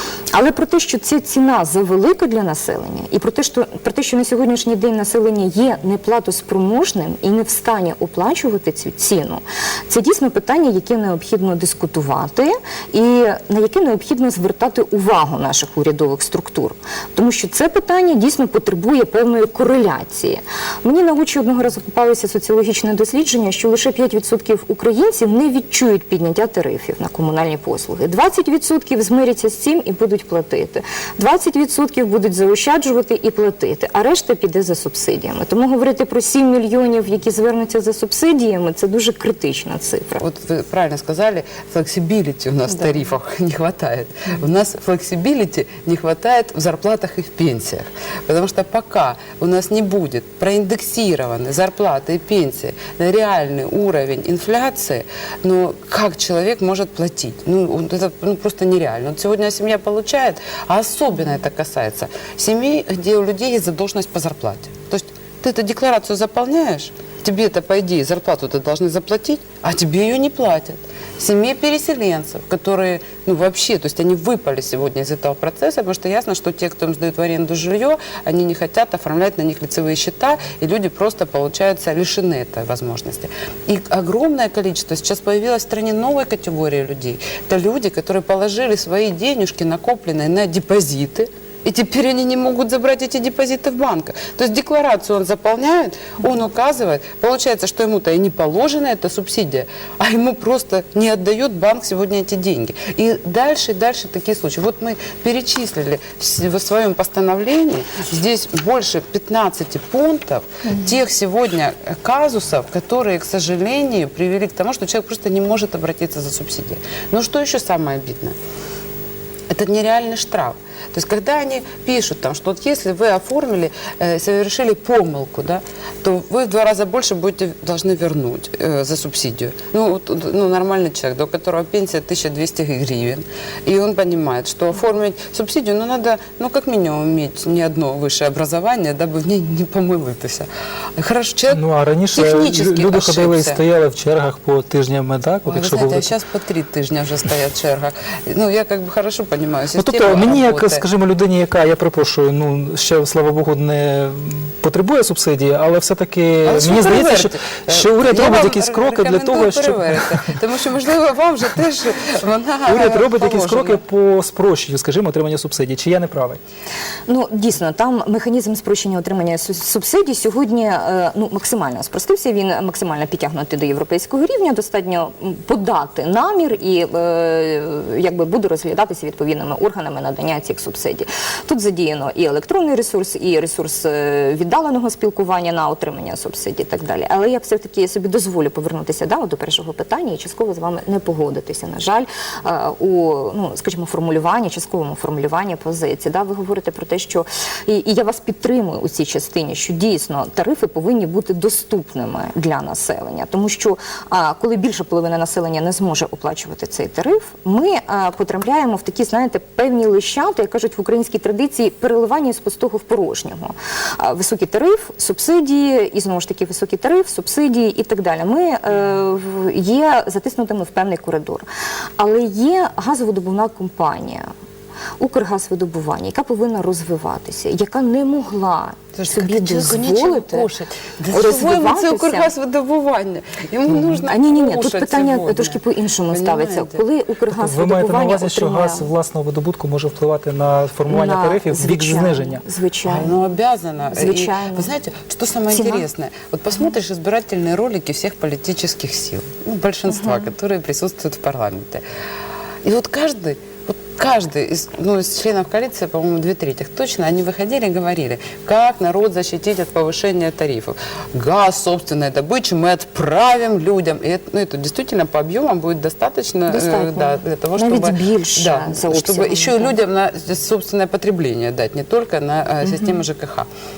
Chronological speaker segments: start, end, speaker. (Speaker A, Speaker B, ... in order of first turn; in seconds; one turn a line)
Speaker A: 0.3-40.2
Speaker B: 40.2-118.3
Speaker B: 119.5-141.6
Speaker C: 141.5-146.1
Speaker B: 142.1-143.6
Speaker B: 145.4-150.8
Speaker C: 149.7-160.2
Speaker B: 156.4-163.8
Speaker C: 162.7-166.4
Speaker A: 167.1-221.5
Speaker A: 222.0-224.2
Speaker A: 225.0-230.5
Speaker B: 228.9-236.8
Speaker A: 231.1-232.3
Speaker A: 234.0-238.9
Speaker C: 237.3-242.4
Speaker A: 240.9-243.2
Speaker B: 242.8-251.8
Speaker A: 243.9-244.7
Speaker A: 245.5-245.9
Speaker B: 252.6-273.5
Speaker A: 266.5-269.7